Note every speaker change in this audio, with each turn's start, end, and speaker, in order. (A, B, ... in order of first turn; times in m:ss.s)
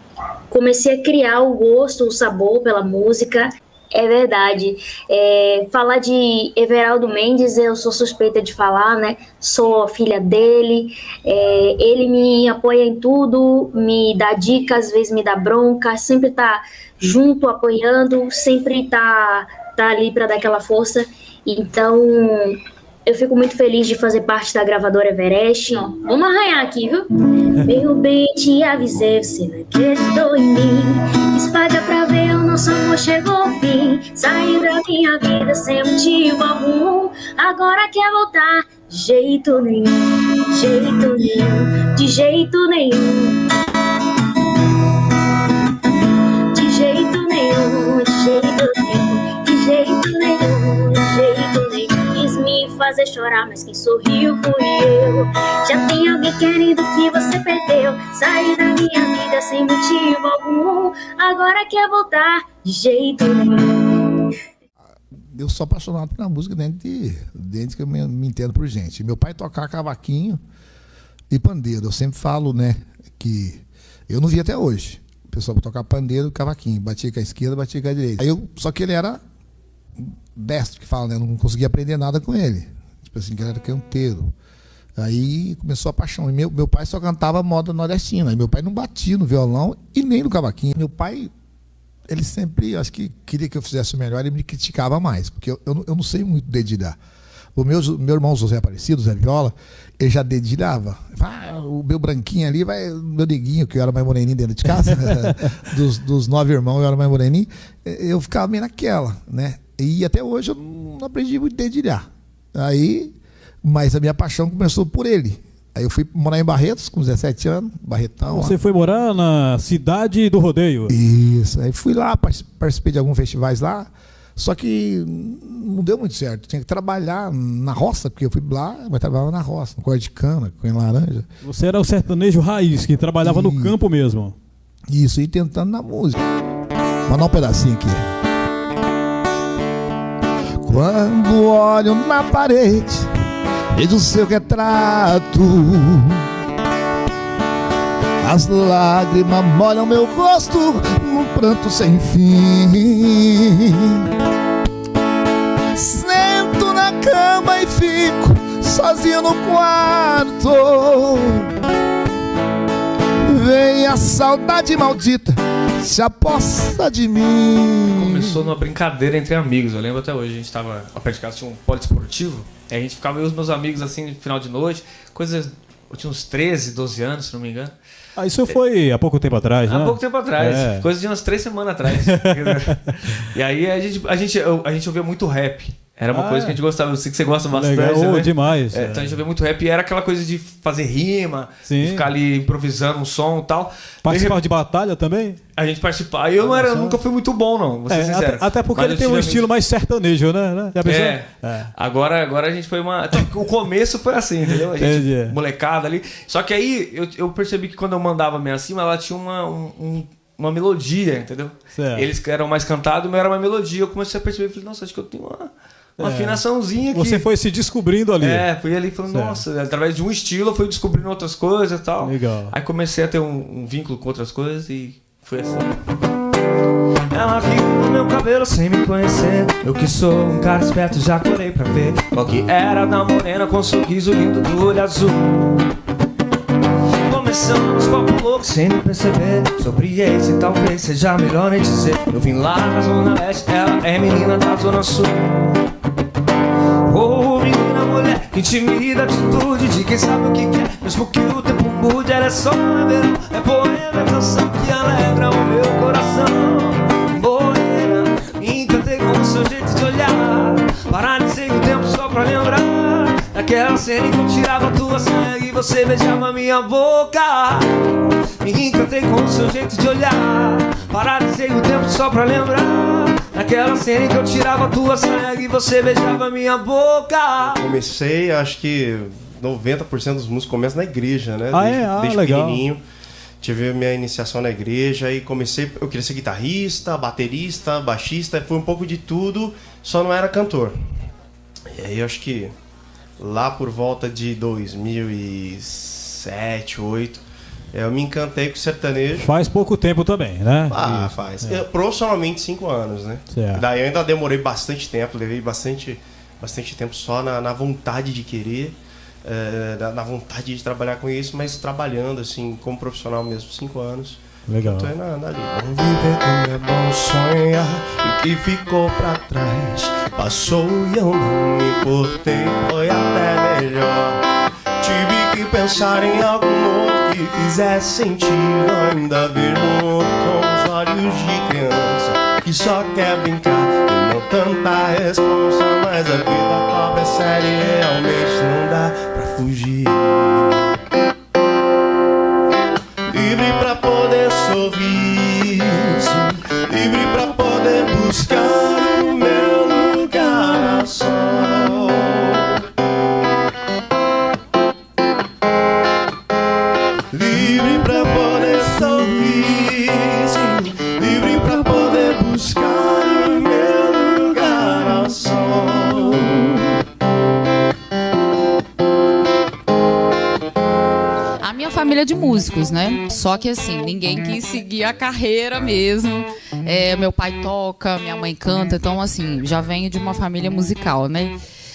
0:00.5-0:27.1 A
0:27.6-0:43.4 A
0:46.5-1:04.2 A
1:05.3-1:10.4 B
1:11.3-1:19.2 B
1:20.0-1:24.3 B
1:25.0-1:31.3 B
1:32.1-1:37.0 B
1:37.6-1:58.6 B
1:58.3-2:00.9 C
2:00.9-2:11.3 B
2:11.4-2:14.4 C
2:13.2-2:13.7 B
2:14.9-2:16.2 B
2:17.1-2:18.1 B
2:20.6-2:23.1 B
2:23.7-2:26.2 B
2:28.2-2:34.0 B
2:35.7-2:41.5 B
2:43.2-2:48.4 B
2:48.0-2:57.7 D
2:58.2-3:00.9 C
2:59.7-3:14.4 D
3:02.0-3:02.9 C
3:06.1-3:06.6 C
3:07.5-3:09.2 C
3:11.6-3:12.1 C
3:14.0-3:15.4 C
3:15.6-3:19.4 D
3:16.4-3:17.0 C
3:17.9-3:21.7 C
3:20.8-3:37.3 D
3:24.8-3:25.4 C
3:31.7-3:32.1 C
3:36.0-3:38.5 C
3:38.2-3:45.8 D
3:39.1-3:39.4 C
3:42.0-3:42.5 C
3:47.1-3:55.6 D
3:57.0-4:05.6 D
4:06.8-4:27.7 D
4:28.4-4:37.6 D
4:37.4-4:42.8 E
4:41.5-4:42.6 C
4:43.4-4:50.8 E
4:51.7-4:52.5 E
4:53.2-4:59.3 E
4:59.1-5:01.6 C
5:00.7-5:14.2 E
5:03.3-5:03.6 C
5:14.5-5:14.9 C
5:14.7-5:24.2 E
5:24.8-5:40.6 E
5:43.1-5:52.4 E
5:57.1-6:06.4 E
6:11.4-6:21.4 F